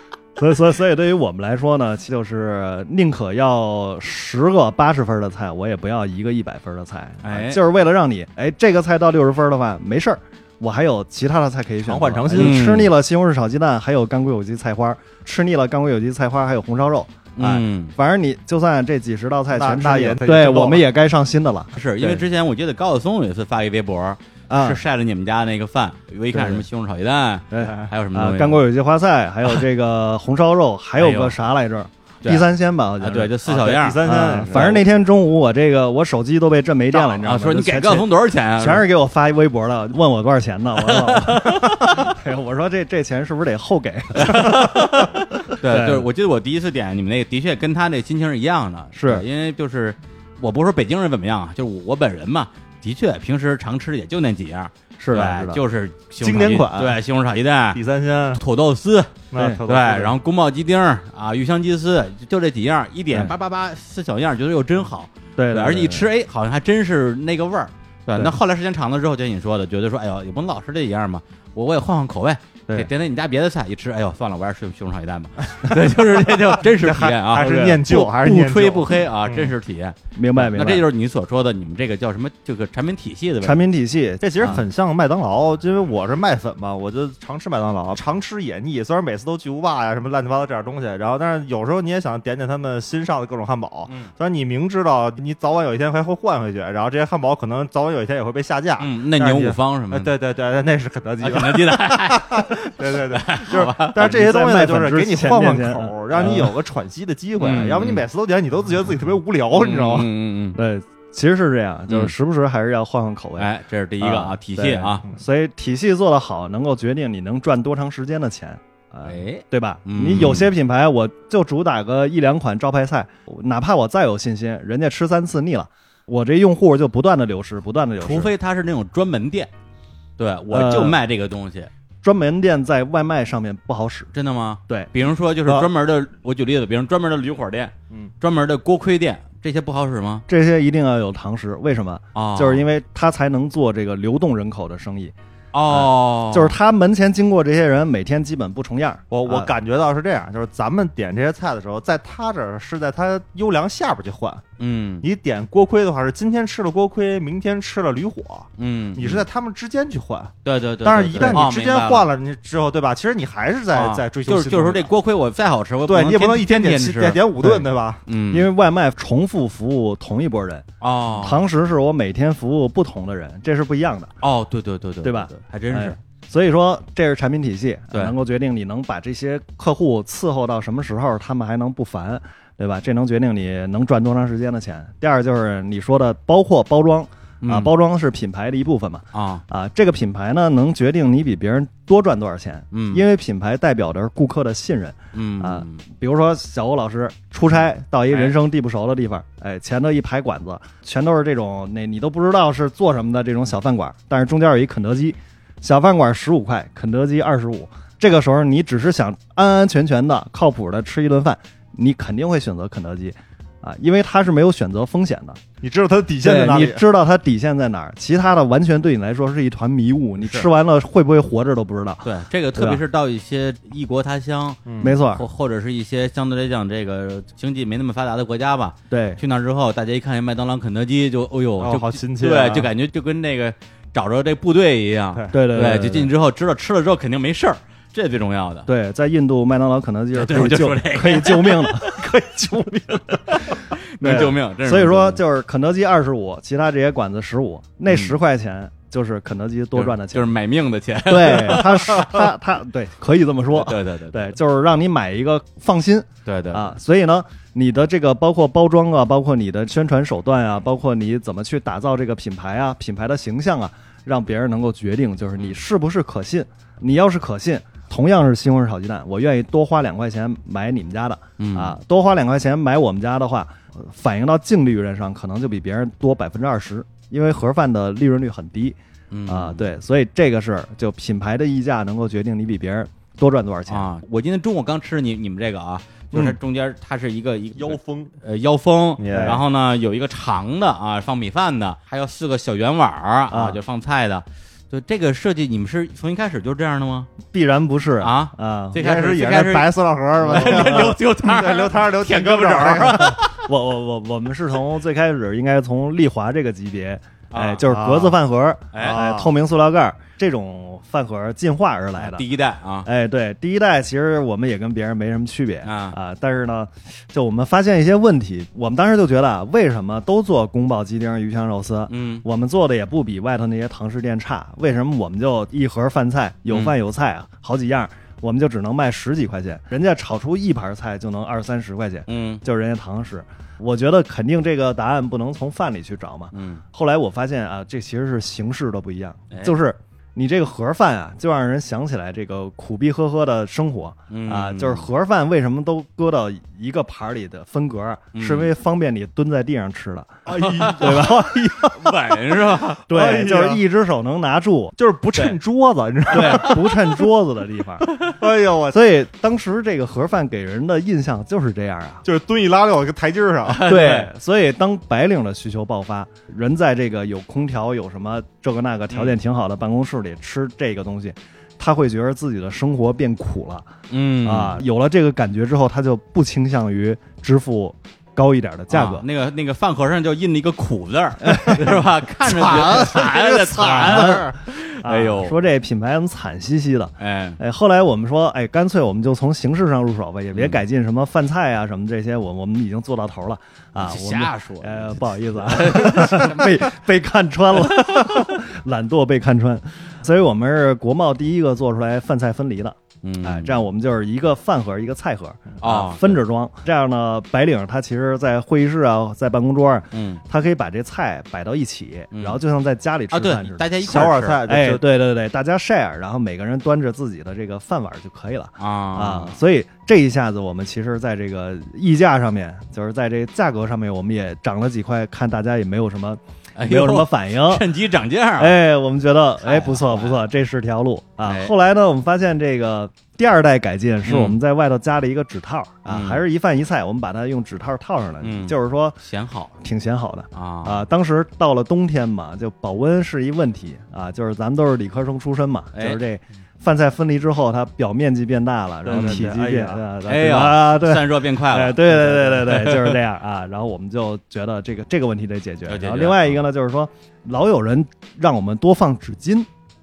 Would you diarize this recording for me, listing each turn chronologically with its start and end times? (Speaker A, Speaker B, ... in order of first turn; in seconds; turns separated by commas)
Speaker A: 0.4-22.2, Speaker B: 7.2-7.6, Speaker C: 11.8-12.8, Speaker B: 12.3-12.9, Speaker B: 17.4-17.9, Speaker C: 19.5-20.9, Speaker B: 21.7-28.6, Speaker A: 24.5-24.8, Speaker A: 26.3-26.7, Speaker A: 27.5-33.4, Speaker C: 27.6-27.9, Speaker B: 31.0-31.4, Speaker B: 32.2-34.8, Speaker C: 33.5-34.8, Speaker A: 34.0-46.1, Speaker B: 36.9-38.9, Speaker B: 40.9-41.7, Speaker B: 44.2-57.8, Speaker A: 48.9-49.2, Speaker A: 55.0-55.6, Speaker C: 56.2-57.0, Speaker C: 57.7-58.4, Speaker B: 58.4-83.6, Speaker C: 59.3-60.2, Speaker A: 59.4-59.6, Speaker A: 65.4-66.1, Speaker C: 76.6-79.5, Speaker A: 80.2-80.9, Speaker A: 83.4-84.6, Speaker C: 84.2-110.1, Speaker B: 98.8-100.1, Speaker B: 101.2-104.1, Speaker A: 104.0-106.5, Speaker B: 106.2-106.5, Speaker B: 107.4-108.0, Speaker B: 109.6-110.6, Speaker A: 110.6-128.3, Speaker B: 113.4-115.0, Speaker B: 119.0-120.5, Speaker B: 128.0-129.5, Speaker B: 130.2-131.7, Speaker A: 130.5-131.0, Speaker A: 132.0-134.1, Speaker B: 134.1-140.2, Speaker A: 140.3-145.1, Speaker B: 142.2-142.7, Speaker B: 145.5-146.6, Speaker A: 145.7-149.5, Speaker C: 149.1-154.4, Speaker B: 154.6-155.1, Speaker C: 155.0-164.9, Speaker B: 158.6-159.2, Speaker B: 160.4-162.1, Speaker A: 161.1-161.4, Speaker B: 163.8-167.2, Speaker C: 165.9-168.0, Speaker A: 167.4-167.7, Speaker B: 168.1-168.5, Speaker A: 168.3-174.1, Speaker B: 170.8-171.4, Speaker B: 174.2-176.0, Speaker A: 175.0-215.4, Speaker B: 187.4-187.7, Speaker B: 189.1-189.4, Speaker B: 192.7-193.0, Speaker B: 195.1-195.8, Speaker C: 215.6-216.8, Speaker A: 216.2-222.8, Speaker B: 222.0-238.7, Speaker C: 224.7-225.0, Speaker A: 224.8-225.2, Speaker A: 228.9-229.2, Speaker C: 231.6-232.7, Speaker A: 235.3-236.1, Speaker A: 238.7-242.0, Speaker B: 240.2-242.1, Speaker C: 241.9-243.2, Speaker B: 243.3-245.2, Speaker A: 244.0-250.3, Speaker B: 247.9-248.2, Speaker B: 249.7-252.2, Speaker A: 251.1-283.9, Speaker B: 253.5-254.3, Speaker B: 256.3-256.7, Speaker B: 271.4-271.8, Speaker B: 279.1-279.7, Speaker B: 283.7-297.1, Speaker C: 287.6-288.1, Speaker C: 289.0-289.4, Speaker A: 293.3-293.6, Speaker A: 297.3-298.8, Speaker B: 298.0-303.5, Speaker C: 298.8-303.2, Speaker A: 300.2-301.0, Speaker A: 303.1-312.2, Speaker B: 307.3-307.6, Speaker C: 307.6-308.2, Speaker B: 308.7-309.0, Speaker C: 308.8-309.3, Speaker B: 312.0-312.9, Speaker A: 312.8-351.7, Speaker B: 315.6-316.0, Speaker B: 321.9-322.2, Speaker B: 326.5-326.8, Speaker B: 332.1-332.4, Speaker B: 336.3-336.6, Speaker B: 344.1-344.9, Speaker B: 348.1-348.5, Speaker C: 350.3-352.0, Speaker B: 350.4-352.9, Speaker C: 352.9-353.6, Speaker A: 352.9-355.4, Speaker C: 354.8-356.9, Speaker A: 356.1-357.9, Speaker C: 358.0-358.9, Speaker A: 358.7-362.0, Speaker C: 362.0-363.7, Speaker B: 363.5-364.1, Speaker A: 363.6-373.7, Speaker B: 373.9-374.6, Speaker A: 374.2-379.1, Speaker B: 378.7-385.4, Speaker A: 381.2-381.8, Speaker C: 382.2-384.4, Speaker A: 382.5-383.0, Speaker A: 383.5-427.7, Speaker B: 387.0-387.4, Speaker B: 390.3-390.6, Speaker B: 393.8-396.6, Speaker B: 403.0-403.6, Speaker B: 405.6-406.2, Speaker B: 409.9-410.2, Speaker B: 412.1-412.4, Speaker B: 413.1-414.4, Speaker C: 413.8-414.9, Speaker B: 418.6-419.4, Speaker B: 426.6-428.6, Speaker A: 428.4-439.0, Speaker B: 429.4-430.2, Speaker B: 431.2-431.5, Speaker B: 434.1-434.4, Speaker B: 435.9-436.2, Speaker B: 438.2-439.5, Speaker A: 439.6-459.5, Speaker B: 440.3-440.9, Speaker B: 445.7-446.0, Speaker C: 448.9-449.8, Speaker B: 448.9-449.2, Speaker B: 450.1-453.0, Speaker B: 455.7-456.4